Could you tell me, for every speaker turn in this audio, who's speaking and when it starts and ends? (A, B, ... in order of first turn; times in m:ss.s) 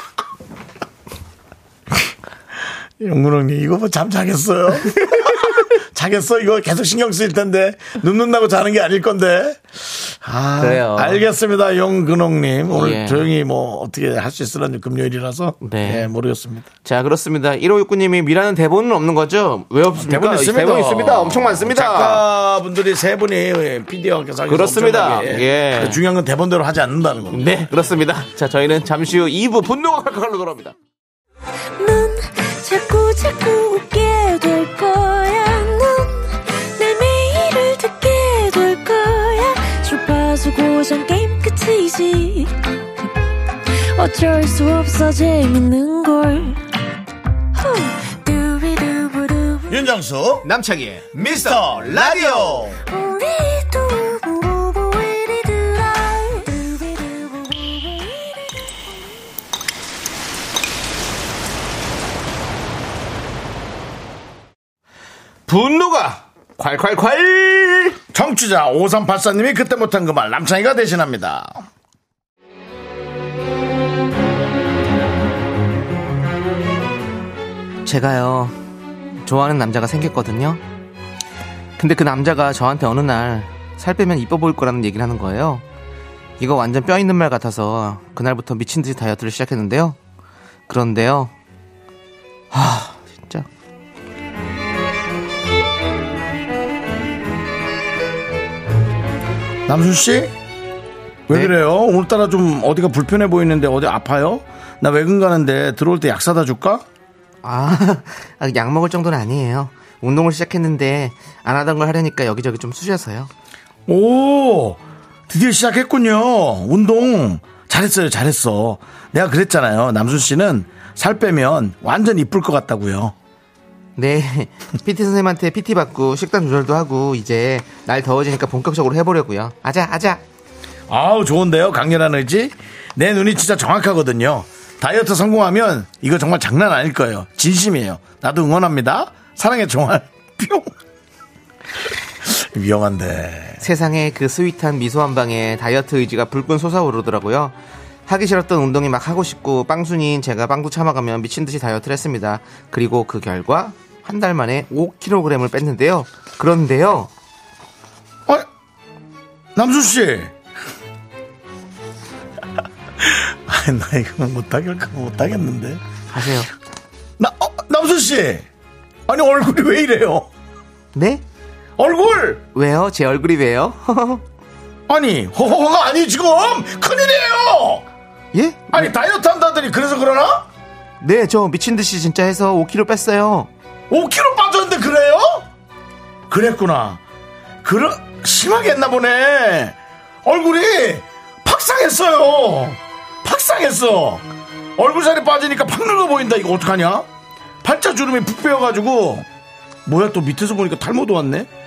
0:03.0-0:16.7 A
0:05.0-0:05.6 B
0:10.6-0:11.2 B
0:12.7-0:13.3 B
0:15.6-0:16.1 B
0:16.8-0:22.2 B
0:20.0-0:27.9 A
0:24.4-0:26.0 B
0:27.3-0:30.7 B
0:31.8-0:43.0 C
0:43.7-0:46.6 C
0:47.5-0:49.8 C
0:49.7-0:50.5 A
0:50.4-0:52.7 B
0:51.2-0:52.8 A
0:52.9-0:59.2 C
1:05.5-1:08.0 B
1:08.1-1:11.6 A
1:17.8-1:18.6 B
1:19.2-1:20.6 B
1:21.8-1:25.6 B
1:26.4-1:30.0 B
1:30.7-1:31.3 B
1:32.5-1:33.4 B
1:39.7-1:40.3 A
1:41.3-1:46.8 A
1:47.4-1:53.3 B
1:53.9-2:03.1 A
2:04.0-2:10.2 B
2:10.9-2:20.7 A
2:22.2-2:23.6 A
2:23.6-2:27.5 B
2:28.1-2:37.1 B
2:39.5-2:40.3 A
2:43.0-2:45.8 A
2:46.1-2:46.5 B
2:47.2-2:48.4 A
2:49.1-2:50.3 A
2:50.9-2:51.2 B
2:51.8-2:52.4 A
2:52.5-2:54.2 B
2:54.9-2:57.8 A
2:58.3-2:58.9 B
2:58.7-3:00.4 A
3:01.0-3:03.5 B
3:03.9-3:05.5 A
3:06.3-3:07.0 A
3:07.6-3:14.2 A
3:14.8-3:17.1 A
3:17.6-3:19.3 A
3:19.8-3:21.5 A